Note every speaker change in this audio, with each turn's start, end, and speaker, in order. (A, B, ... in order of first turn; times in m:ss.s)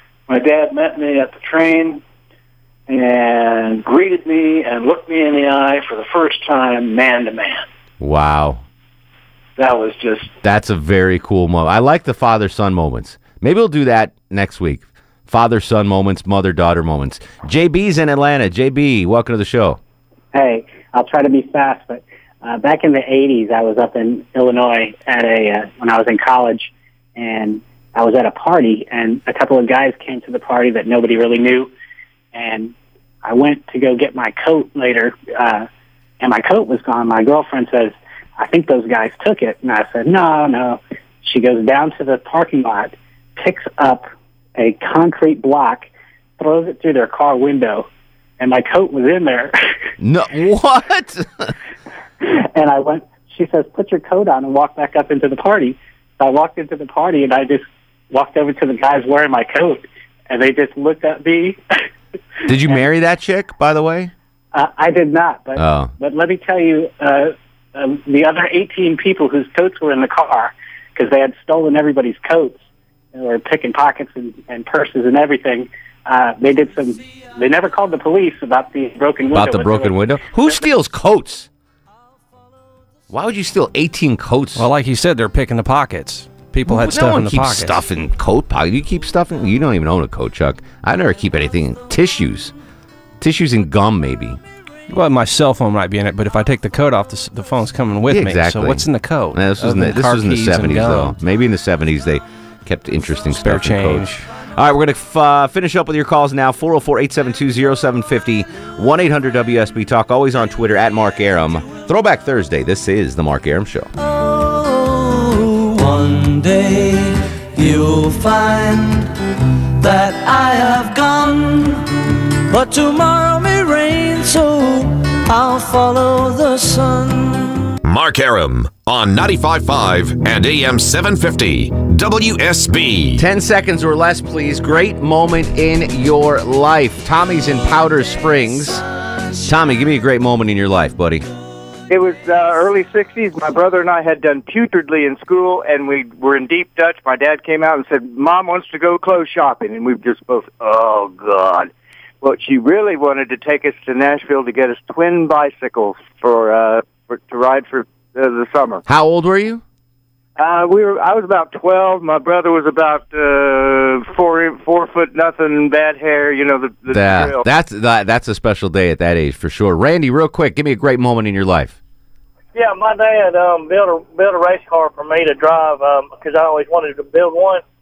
0:00.3-0:02.0 A
0:02.9-0:07.6 A
0:08.0-0:08.6 B
0:09.6-0:10.3 A
0:10.4-0:19.8 B
0:20.3-0:31.7 C
0:32.3-0:35.7 C
0:36.2-0:47.9 C
0:48.4-0:49.5 C
0:50.0-0:51.5 B
0:52.2-1:01.6 C
1:02.4-1:04.1 B
1:04.5-1:12.6 C
1:05.6-1:05.9 B
1:13.1-1:20.0 C
1:19.3-1:21.5 B
1:23.1-1:24.6 B
1:24.5-1:27.8 D
1:26.6-1:32.5 B
1:33.2-1:34.4 B
1:34.9-1:41.2 D
1:38.1-1:53.9 B
1:43.4-1:44.2 D
1:54.0-1:59.2 E
1:59.8-2:01.9 E
2:02.5-2:07.7 E
2:07.8-2:13.2 F
2:13.2-2:18.8 B
2:19.4-2:21.2 B
2:21.9-2:31.7 G
2:32.2-2:38.8 G
2:38.9-2:39.6 B
2:40.4-2:47.4 G
2:46.9-2:51.8 B
2:52.6-2:57.6 H